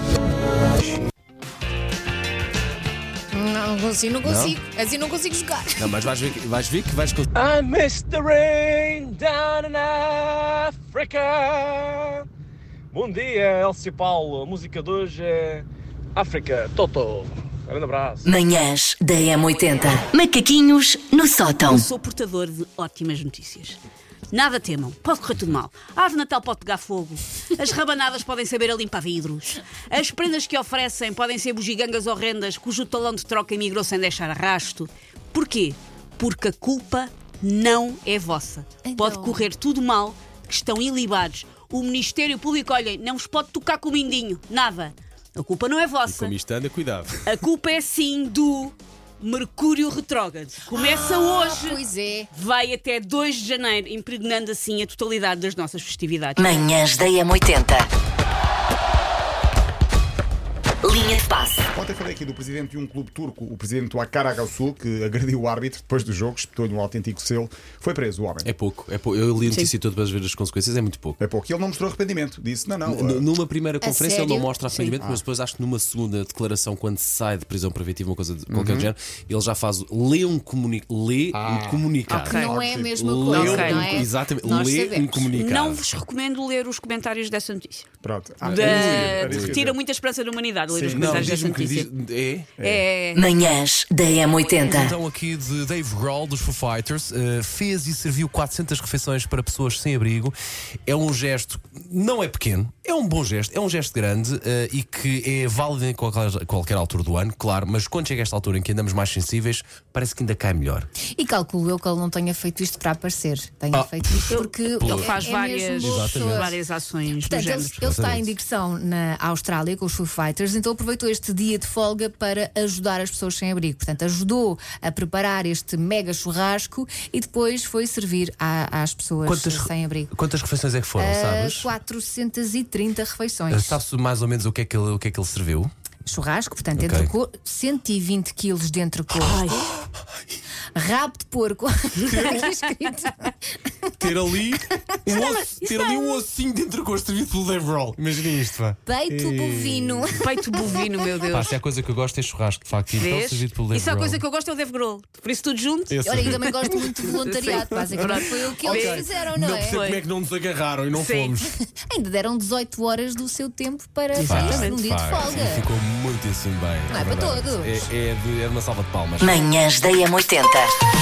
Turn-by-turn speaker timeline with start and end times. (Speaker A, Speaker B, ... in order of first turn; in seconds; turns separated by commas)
Speaker A: 3.3-5.8, Speaker B: 4.2-4.6, Speaker B: 5.8-7.2, Speaker C: 7.3-12.2, Speaker C: 12.9-18.3, Speaker D: 18.2-21.9, Speaker E: 21.6-23.8, Speaker E: 24.3-46.3, Speaker A: 38.8-39.5, Speaker B: 46.1-47.3, Speaker E: 47.2-51.8, Speaker A: 50.7-52.3, Speaker E: 52.3-56.4, Speaker D: 56.4-57.9, Speaker D: 60.8-61.6, Speaker F: 61.7-68.5, Speaker B: 68.4-71.2, Speaker F: 71.2-73.3, Speaker B: 72.8-85.8, Speaker A: 73.8-74.5, Speaker F: 78.5-78.9, Speaker F: 81.3-83.5, Speaker E: 82.1-82.5, Speaker A: 82.3-85.3, Speaker E: 83.4-84.0, Speaker E: 85.3-87.8, Speaker F: 88.0-89.8, Speaker B: 88.4-89.6, Speaker E: 88.4-91.9, Speaker F: 90.7-91.2, Speaker B: 90.9-92.5, Speaker F: 92.6-92.8, Speaker E: 92.6-93.2, Speaker D: 93.1-95.0, Speaker B: 94.6-110.9, Speaker A: 111.2-116.5, Speaker B: 113.7-115.1, Speaker E: 114.3-117.8, Speaker B: 115.7-116.5, Speaker A: 117.2-130.1, Speaker B: 117.8-118.3, Speaker B: 129.2-131.7, Speaker A: 131.0-133.8, Speaker B: 133.5-135.7, Speaker A: 136.0-139.7, Speaker B: 136.7-137.1, Speaker B: 139.1-140.2, Speaker A: 140.8-143.9, Speaker B: 142.0-142.5, Speaker B: 144.0-150.2, Speaker E: 145.6-146.2, Speaker A: 148.8-150.2, Speaker E: 150.2-151.5, Speaker B: 151.3-154.2, Speaker E: 152.9-155.9, Speaker B: 155.9-161.5, Speaker A: 156.0-159.8, Speaker E: 157.1-160.0, Speaker E: 160.9-161.3, Speaker A: 161.4-165.6, Speaker E: 164.2-164.8, Speaker B: 164.2-169.4, Speaker A: 166.9-167.8, Speaker D: 169.2-170.7